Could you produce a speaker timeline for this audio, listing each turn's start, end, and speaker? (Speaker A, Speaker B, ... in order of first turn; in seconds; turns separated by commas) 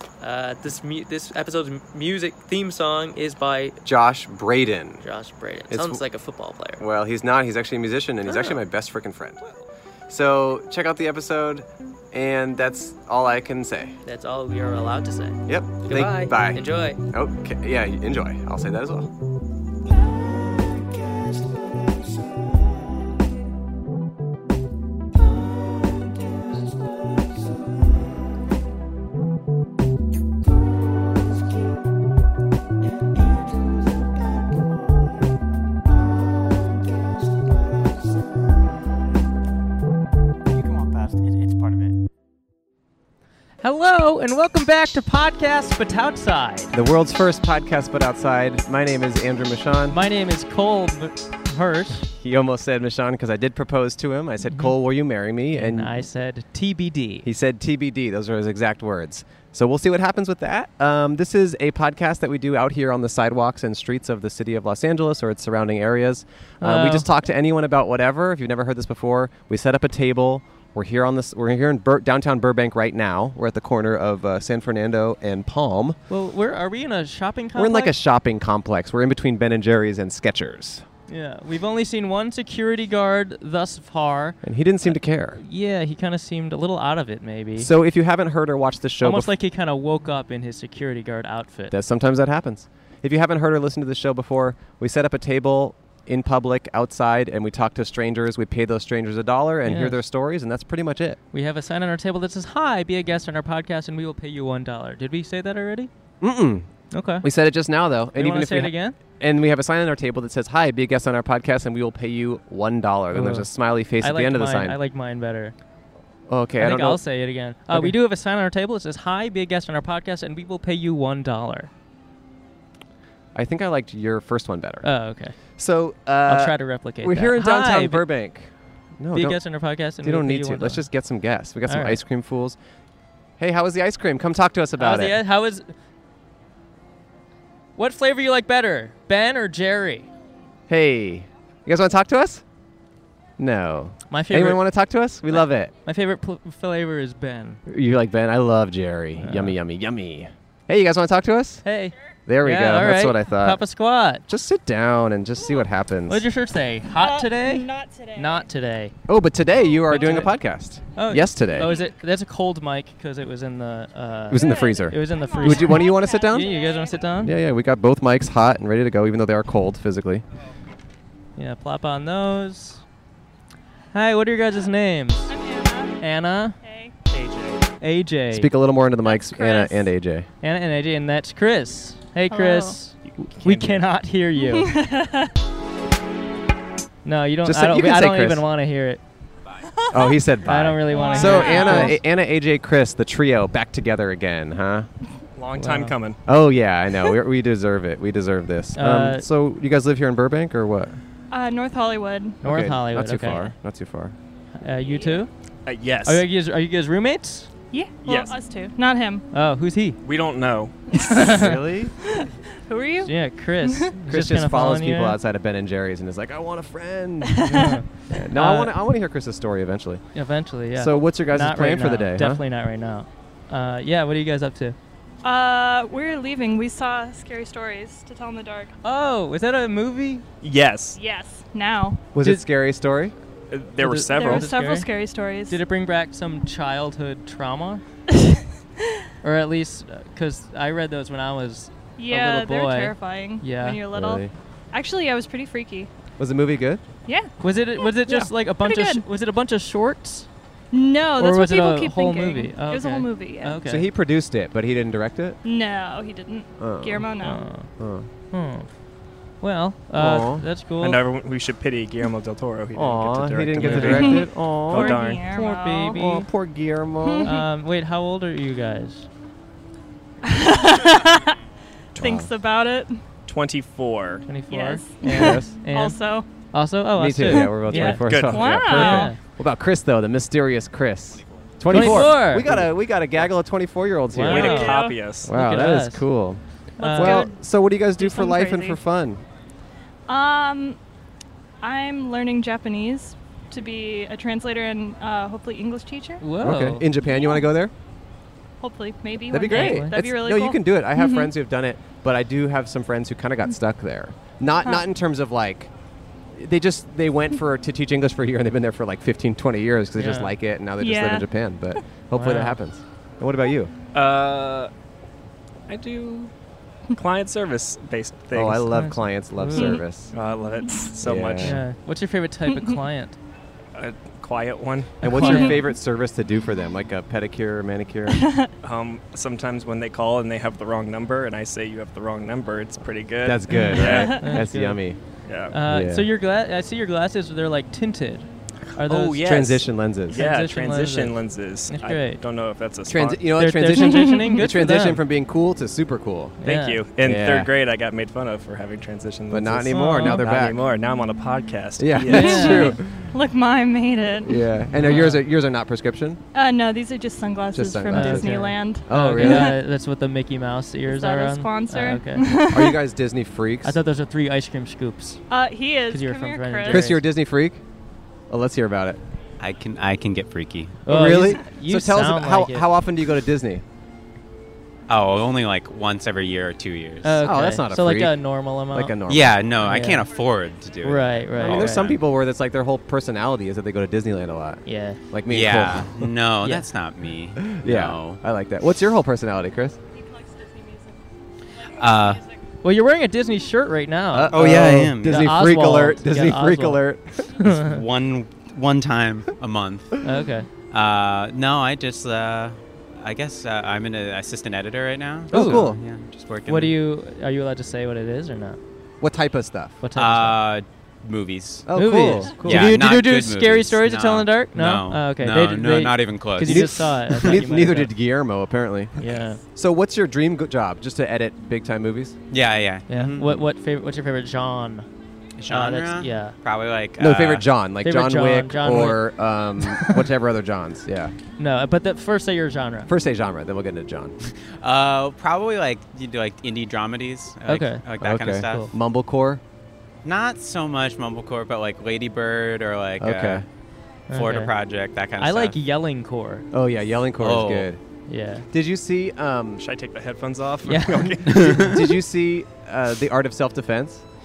Speaker A: 0.2-3.8, Speaker B: 3.8-5.0, Speaker A: 5.0-6.8, Speaker B: 5.7-6.0, Speaker B: 6.8-9.4, Speaker A: 8.2-8.6, Speaker B: 10.1-14.0, Speaker A: 14.0-17.0, Speaker B: 15.5-19.1, Speaker C: 43.6-46.7, Speaker B: 46.7-50.0, Speaker C: 49.9-52.0, Speaker B: 52.2-56.0, Speaker C: 55.5-57.2, Speaker B: 57.2-76.0, Speaker C: 66.6-67.1, Speaker C: 76.1-77.9, Speaker B: 77.5-80.8, Speaker C: 81.1-87.7, Speaker B: 84.4-85.4, Speaker B: 87.6-89.3, Speaker C: 89.0-91.7, Speaker B: 91.7-101.2, Speaker C: 99.7-100.0, Speaker C: 101.3-105.9, Speaker B: 106.2-106.7, Speaker C: 106.9-107.2, Speaker B: 107.2-114.8, Speaker C: 108.2-109.0, Speaker C: 113.1-113.5, Speaker C: 114.0-115.5, Speaker B: 116.3-117.0, Speaker C: 116.6-121.7, Speaker B: 117.7-118.0, Speaker B: 123.3-124.9, Speaker C: 124.8-125.3, Speaker B: 125.6-129.4, Speaker C: 126.3-128.0, Speaker C: 129.1-130.8, Speaker B: 130.0-132.6, Speaker C: 131.7-132.0, Speaker B: 133.4-135.2, Speaker C: 134.8-135.7, Speaker C: 137.8-140.1, Speaker B: 140.7-142.4, Speaker B: 143.4-145.7, Speaker C: 144.1-144.6, Speaker C: 145.3-147.6, Speaker B: 147.7-151.6, Speaker C: 149.2-149.6, Speaker C: 151.6-154.2, Speaker B: 152.3-153.6, Speaker B: 154.3-156.2, Speaker C: 156.1-158.9, Speaker D: 156.9-158.5, Speaker B: 159.1-161.7, Speaker C: 159.9-160.3, Speaker D: 159.9-160.2, Speaker C: 160.9-167.3, Speaker D: 161.6-161.9, Speaker B: 164.3-166.6, Speaker D: 164.3-167.1, Speaker B: 167.2-170.2, Speaker C: 171.3-172.8, Speaker C: 173.9-175.3, Speaker D: 175.3-176.0, Speaker C: 176.0-176.6, Speaker D: 176.6-176.9, Speaker E: 177.1-177.6, Speaker C: 177.8-178.5, Speaker B: 178.3-180.3, Speaker D: 179.0-179.8, Speaker C: 180.4-184.7, Speaker D: 182.3-182.8, Speaker E: 183.2-183.8, Speaker D: 184.4-185.3, Speaker C: 187.0-189.0, Speaker B: 187.4-188.4, Speaker B: 189.9-194.9, Speaker C: 190.4-192.0, Speaker D: 190.9-192.0, Speaker E: 195.3-196.2, Speaker C: 195.6-195.9, Speaker B: 196.3-201.0, Speaker C: 198.8-199.3, Speaker D: 201.3-202.4, Speaker C: 202.4-203.5, Speaker B: 202.4-204.1, Speaker C: 204.6-205.3, Speaker E: 205.6-206.2, Speaker C: 206.0-207.5, Speaker D: 207.7-209.2, Speaker E: 208.0-208.3, Speaker C: 209.3-210.0, Speaker E: 210.0-210.8, Speaker C: 211.1-211.5, Speaker B: 211.3-211.9, Speaker D: 212.1-213.1, Speaker C: 213.0-215.2, Speaker D: 213.6-213.9, Speaker B: 214.1-220.0, Speaker D: 217.2-217.8, Speaker C: 217.4-218.7, Speaker C: 220.1-224.8, Speaker B: 220.7-222.4, Speaker D: 225.2-228.7, Speaker C: 228.8-230.2, Speaker E: 230.4-231.0, Speaker D: 230.9-232.0, Speaker B: 232.1-233.1, Speaker C: 232.2-232.4, Speaker E: 233.5-234.5, Speaker C: 233.8-234.9, Speaker D: 234.1-235.6, Speaker C: 235.5-237.8, Speaker D: 238.2-238.4, Speaker C: 239.2-243.8, Speaker D: 242.0-245.9, Speaker B: 243.9-244.3, Speaker B: 246.2-246.8, Speaker D: 247.1-249.0, Speaker C: 247.4-250.3, Speaker D: 250.7-253.6, Speaker C: 251.2-253.9, Speaker B: 253.6-255.4, Speaker D: 255.4-257.4, Speaker B: 256.6-257.1, Speaker C: 257.2-257.7, Speaker B: 257.8-258.1, Speaker C: 258.3-258.7, Speaker C: 259.4-261.0, Speaker B: 259.9-260.4, Speaker E: 260.8-265.2, Speaker B: 262.7-264.9, Speaker C: 263.6-264.2, Speaker D: 263.8-266.2, Speaker C: 265.3-266.3, Speaker B: 265.9-267.3, Speaker D: 267.0-267.4, Speaker C: 267.2-269.1, Speaker D: 270.2-271.4, Speaker B: 271.9-272.3, Speaker D: 271.9-273.0, Speaker E: 273.2-274.4, Speaker C: 274.3-279.2, Speaker D: 274.4-276.3, Speaker B: 275.0-275.5, Speaker B: 276.9-284.6, Speaker D: 277.5-279.1, Speaker E: 277.9-278.8, Speaker C: 281.7-282.6, Speaker C: 284.1-286.0, Speaker E: 284.2-285.3, Speaker D: 284.3-285.0, Speaker B: 285.2-286.4, Speaker D: 286.8-287.4, Speaker C: 286.8-287.3, Speaker B: 286.9-289.2, Speaker D: 287.9-288.8, Speaker D: 290.1-290.8, Speaker D: 291.6-296.2, Speaker C: 296.2-296.9, Speaker B: 296.4-297.7, Speaker D: 298.6-301.3, Speaker B: 299.3-305.7, Speaker C: 299.5-299.9, Speaker B: 306.3-313.7, Speaker C: 309.9-310.3, Speaker D: 310.8-311.3, Speaker C: 312.1-312.6, Speaker E: 313.9-314.7, Speaker E: 315.7-316.3, Speaker E: 316.9-318.7, Speaker B: 318.3-320.1, Speaker C: 318.7-319.8, Speaker E: 320.1-321.6, Speaker B: 321.0-321.6, Speaker C: 321.4-323.2, Speaker E: 323.7-325.4, Speaker B: 325.0-328.2, Speaker C: 325.1-325.6, Speaker D: 328.1-328.5, Speaker E: 328.6-334.2, Speaker B: 333.2-335.0, Speaker C: 333.5-334.8, Speaker D: 333.8-334.4, Speaker E: 335.2-335.5, Speaker C: 335.5-339.6, Speaker B: 335.6-336.1, Speaker E: 338.8-343.2, Speaker B: 339.2-340.2, Speaker C: 340.1-341.1, Speaker C: 341.7-342.2, Speaker B: 342.9-346.4, Speaker C: 343.4-345.0, Speaker C: 346.4-346.8, Speaker E: 346.4-352.7, Speaker B: 347.0-347.5, Speaker B: 349.3-350.6, Speaker C: 349.7-350.2, Speaker B: 351.8-353.1, Speaker C: 352.1-352.8, Speaker D: 352.4-354.4, Speaker B: 354.2-356.2, Speaker C: 354.8-355.2, Speaker D: 356.3-359.6, Speaker B: 357.5-359.6, Speaker C: 357.9-362.2, Speaker D: 360.8-362.8, Speaker B: 362.5-363.7, Speaker C: 363.6-365.2, Speaker D: 365.3-366.9, Speaker C: 365.9-367.0, Speaker B: 366.7-367.6, Speaker B: 368.3-369.0, Speaker F: 369.4-370.8, Speaker C: 370.9-372.7, Speaker B: 370.9-373.6, Speaker F: 374.9-377.2, Speaker C: 377.0-378.9, Speaker B: 377.2-378.2, Speaker B: 378.7-379.5, Speaker F: 379.1-382.0, Speaker C: 379.6-380.1, Speaker C: 380.8-381.9, Speaker B: 381.4-386.1, Speaker C: 384.6-385.0, Speaker F: 385.3-388.2, Speaker B: 387.4-389.8, Speaker D: 390.5-390.9, Speaker F: 391.8-392.2, Speaker C: 392.6-397.8, Speaker B: 394.1-397.3, Speaker F: 394.3-395.2, Speaker F: 397.4-399.9, Speaker C: 400.0-400.5, Speaker F: 400.7-406.8, Speaker B: 405.3-405.8, Speaker C: 405.3-405.7, Speaker C: 406.5-408.6, Speaker B: 409.0-409.8, Speaker C: 409.8-410.4, Speaker F: 409.9-411.7, Speaker B: 411.6-412.8, Speaker C: 411.7-417.9, Speaker F: 412.4-417.4, Speaker B: 416.4-419.0, Speaker C: 419.0-419.4, Speaker B: 419.5-422.1, Speaker F: 422.3-423.3, Speaker C: 422.9-424.9, Speaker F: 425.4-427.5, Speaker C: 425.5-426.3, Speaker B: 427.0-431.1, Speaker C: 427.8-429.1, Speaker C: 429.6-430.0, Speaker C: 431.4-432.9, Speaker B: 432.9-434.1, Speaker F: 434.6-438.7, Speaker C: 437.5-437.8, Speaker B: 438.0-439.4, Speaker C: 438.4-438.7, Speaker F: 440.0-443.4, Speaker B: 443.0-443.4, Speaker C: 444.1-444.5, Speaker F: 444.1-445.6, Speaker C: 445.2-446.4, Speaker B: 446.5-447.8, Speaker F: 447.2-447.7, Speaker C: 448.1-448.5, Speaker B: 448.5-449.6, Speaker E: 449.6-451.6, Speaker C: 450.6-451.5, Speaker B: 451.3-454.0, Speaker F: 451.4-451.7